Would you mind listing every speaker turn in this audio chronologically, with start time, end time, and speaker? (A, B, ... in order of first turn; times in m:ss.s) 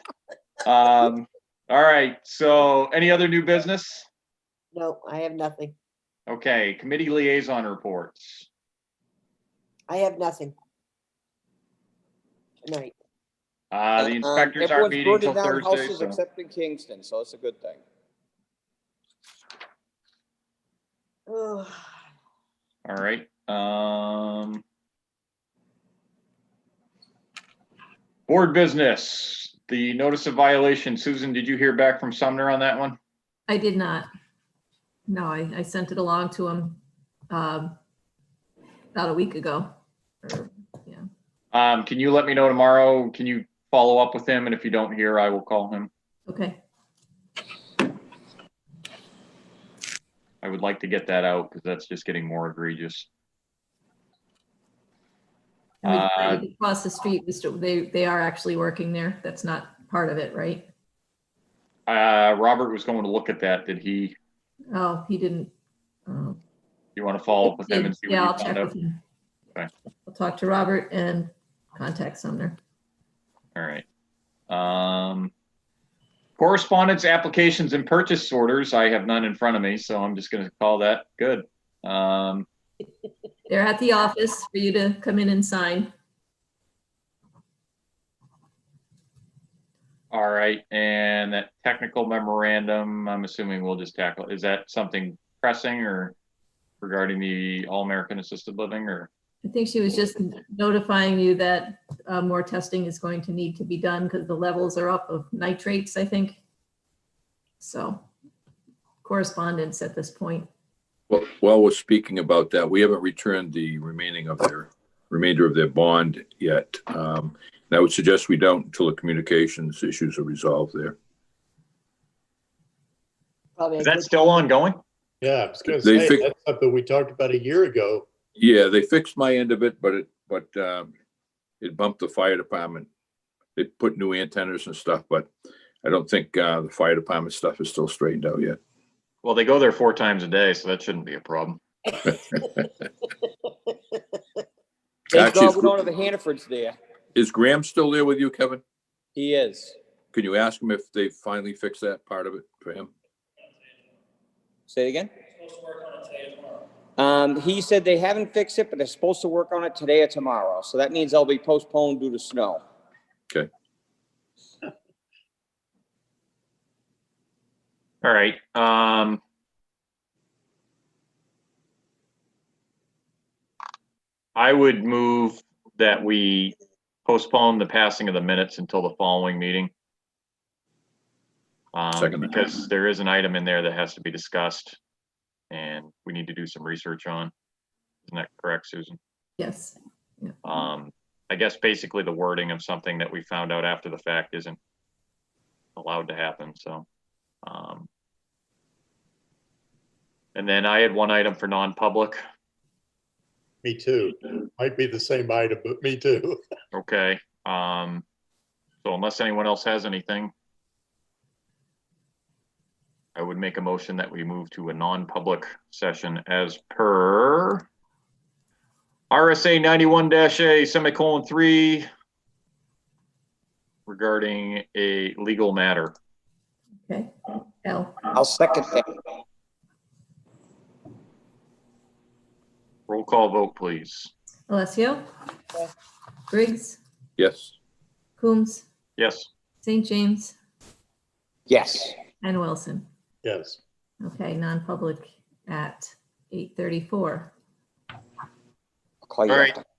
0:00.6-0:04.1 A
0:04.7-0:05.8 B
0:06.3-0:08.5 A
0:09.9-0:10.6 B
0:12.6-0:13.0 B
0:13.7-0:16.2 A
0:14.0-0:17.8 C
0:21.3-0:21.8 B
0:22.9-0:24.6 A
0:28.3-0:33.0 A
0:33.5-0:34.1 D
0:35.1-0:36.8 D
0:37.3-0:37.8 D
0:38.9-0:39.7 D
0:40.2-0:41.0 D
0:41.5-0:45.9 A
0:46.3-0:46.6 D
0:50.4-0:53.1 A
0:55.8-1:00.7 D
0:55.8-0:56.4 A
1:01.9-1:04.2 A
1:04.7-1:05.5 D
1:06.1-1:06.4 D
1:07.0-1:08.7 A
1:07.4-1:09.0 D
1:10.1-1:12.6 D
1:13.6-1:13.8 A
1:14.5-1:15.3 A
1:16.4-1:22.5 A
1:23.5-1:25.9 D
1:30.1-1:36.2 A
1:36.8-1:39.1 A
1:39.4-1:46.4 D
1:47.6-1:48.0 D
1:49.0-1:50.5 D
1:51.1-2:01.0 E
2:03.6-2:04.1 B
2:03.8-2:04.8 A
2:05.2-2:08.1 F
2:05.7-2:06.2 E
2:08.4-2:10.9 E
2:11.6-2:12.9 E
2:13.6-2:15.3 E
2:15.8-2:18.6 E
2:19.2-2:21.6 A
2:25.1-2:25.8 E
2:25.1-2:26.8 C
2:27.2-2:28.6 E
2:29.2-2:29.8 C
2:30.1-2:32.9 E
2:34.7-2:35.1 C
2:37.0-2:42.6 C
2:48.0-2:49.2 A
2:54.4-2:56.6 A
2:57.1-2:59.7 A
3:01.7-3:04.8 A
3:01.9-3:02.6 E
3:05.5-3:07.3 A
3:08.1-3:09.0 A
3:09.4-3:10.4 D
3:10.4-3:14.6 A
3:15.8-3:16.9 A
3:17.4-3:17.9 A
3:20.4-3:22.2 A
3:23.6-3:26.4 F
3:26.7-3:28.0 A
3:28.8-3:30.3 A
3:33.2-3:37.6 A
3:39.1-3:41.9 A
3:43.9-3:45.9 A
3:46.9-3:48.1 D
3:48.1-3:49.0 C
3:52.9-3:54.1 A
3:54.5-3:55.0 D
3:56.3-3:56.8 D
3:57.2-3:57.6 E
3:58.2-3:58.6 D
3:59.0-3:59.3 A
3:59.6-4:00.4 D
4:01.5-4:02.0 C
4:02.2-4:02.9 D
4:03.2-4:03.6 F
4:04.0-4:07.3 D
4:09.1-4:09.6 C
4:09.3-4:09.6 A